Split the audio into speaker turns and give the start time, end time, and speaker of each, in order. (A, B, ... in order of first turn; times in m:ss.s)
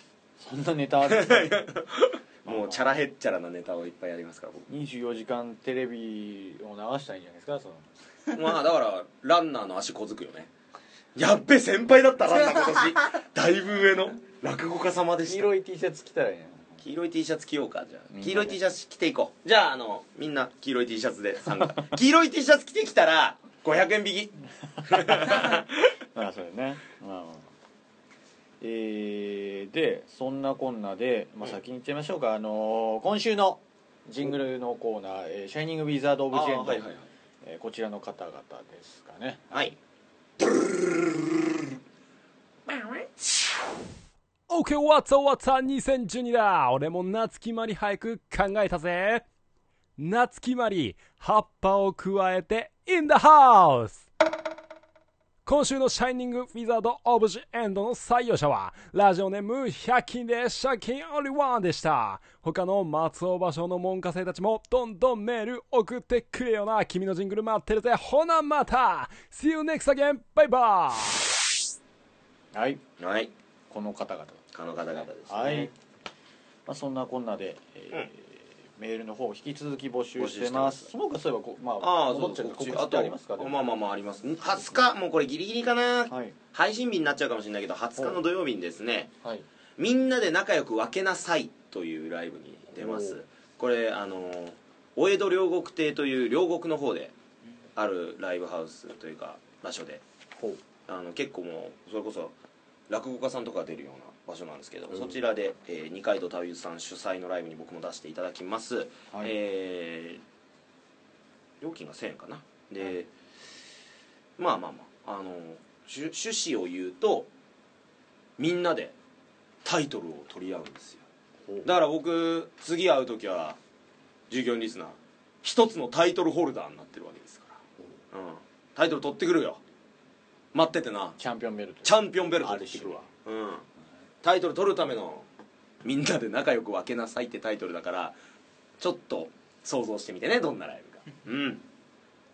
0:00.4-0:01.6 A
0:01.0-0:04.7 B
0:02.4-0:02.9 A
0:04.7-0:07.9 A
0:08.3-0:10.5 B
0:11.1-0:15.5 B
0:15.2-0:16.8 A
0:16.8-0:25.7 B
0:18.1-0:18.6 A
0:24.9-0:25.6 A
0:26.1-0:27.4 A
0:28.6-0:36.8 A
0:36.3-0:37.0 B
0:37.4-0:39.7 A
0:40.4-0:41.4 B
0:44.5-0:49.2 C
0:50.0-0:54.0 C
0:55.4-1:11.3 C
1:12.5-1:12.8 A
1:13.0-1:13.3 B
1:13.7-1:14.4 A
1:14.5-1:15.7 B
1:15.3-1:15.7 A
1:16.6-1:23.6 A
1:20.2-1:20.9 B
1:21.8-1:29.1 B
1:26.1-1:26.3 A
1:29.8-1:37.1 B
1:32.8-1:33.2 A
1:37.8-1:40.0 B
1:40.9-1:42.4 B
1:42.9-1:50.2 B
1:51.6-1:53.1 B
1:54.4-1:57.3 B
1:58.4-1:59.0 B
1:59.6-2:01.0 B
2:01.6-2:03.6 B
2:04.3-2:07.6 B
2:08.1-2:09.6 B
2:10.5-2:11.2 B
2:11.2-2:13.1 A
2:11.8-2:13.6 B
2:14.2-2:15.2 B
2:15.8-2:18.2 B
2:18.8-2:21.6 B